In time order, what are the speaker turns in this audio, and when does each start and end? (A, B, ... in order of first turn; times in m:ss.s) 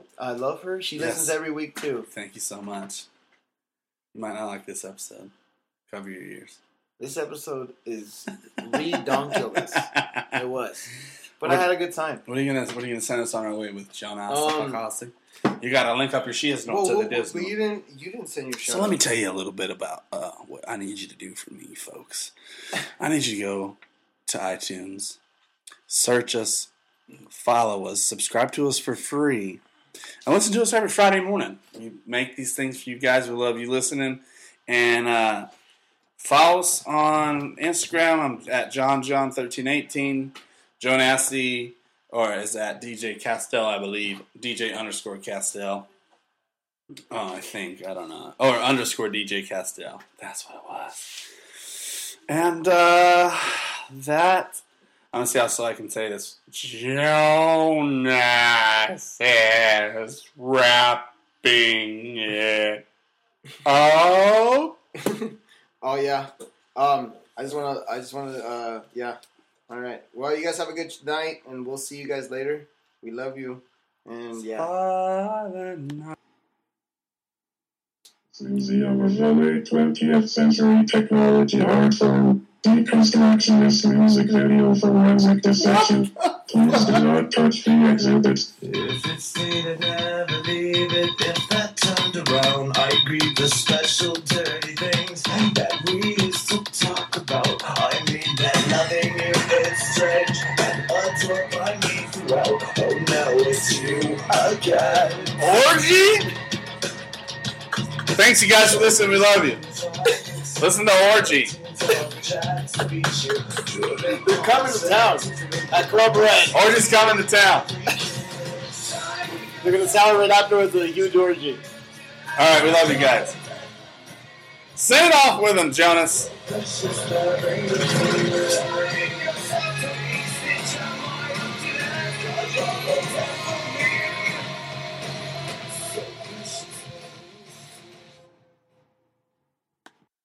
0:00.2-0:02.1 A
0:01.0-0:01.4 B
0:02.1-0:03.1 B
0:04.1-0:05.3 B
0:05.9-0:06.6 B
0:07.0-0:12.2 A
0:08.7-0:10.3 B
0:12.2-0:17.5 B
0:14.3-0:14.8 A
0:16.7-0:19.0 A
0:18.6-0:25.2 B
0:25.9-0:26.7 B
0:27.3-0:29.6 B
0:30.2-0:35.5 B
0:36.2-0:45.9 B
0:47.1-0:51.2 B
0:52.3-1:02.8 B
1:03.6-1:04.8 B
1:05.0-1:14.7 A
1:14.4-1:16.2 B
1:18.3-1:28.5 C
1:25.6-1:27.0 B
1:28.6-1:30.2 A
1:29.7-1:45.4 D
1:31.0-1:32.7 A
1:34.7-1:35.3 A
1:37.7-1:38.6 A
1:41.9-1:45.1 A
1:45.4-1:46.3 B
1:48.1-1:49.6 B
1:50.6-1:51.6 B
1:51.2-1:53.5 D
1:51.8-1:52.7 A
1:53.6-1:56.7 A
1:55.1-1:55.4 D
1:56.5-1:57.7 B
1:57.7-1:59.0 D
1:57.9-1:58.2 A
1:59.4-2:01.6 A
2:02.4-2:03.4 B
2:04.7-2:06.3 B
2:06.4-2:14.4 D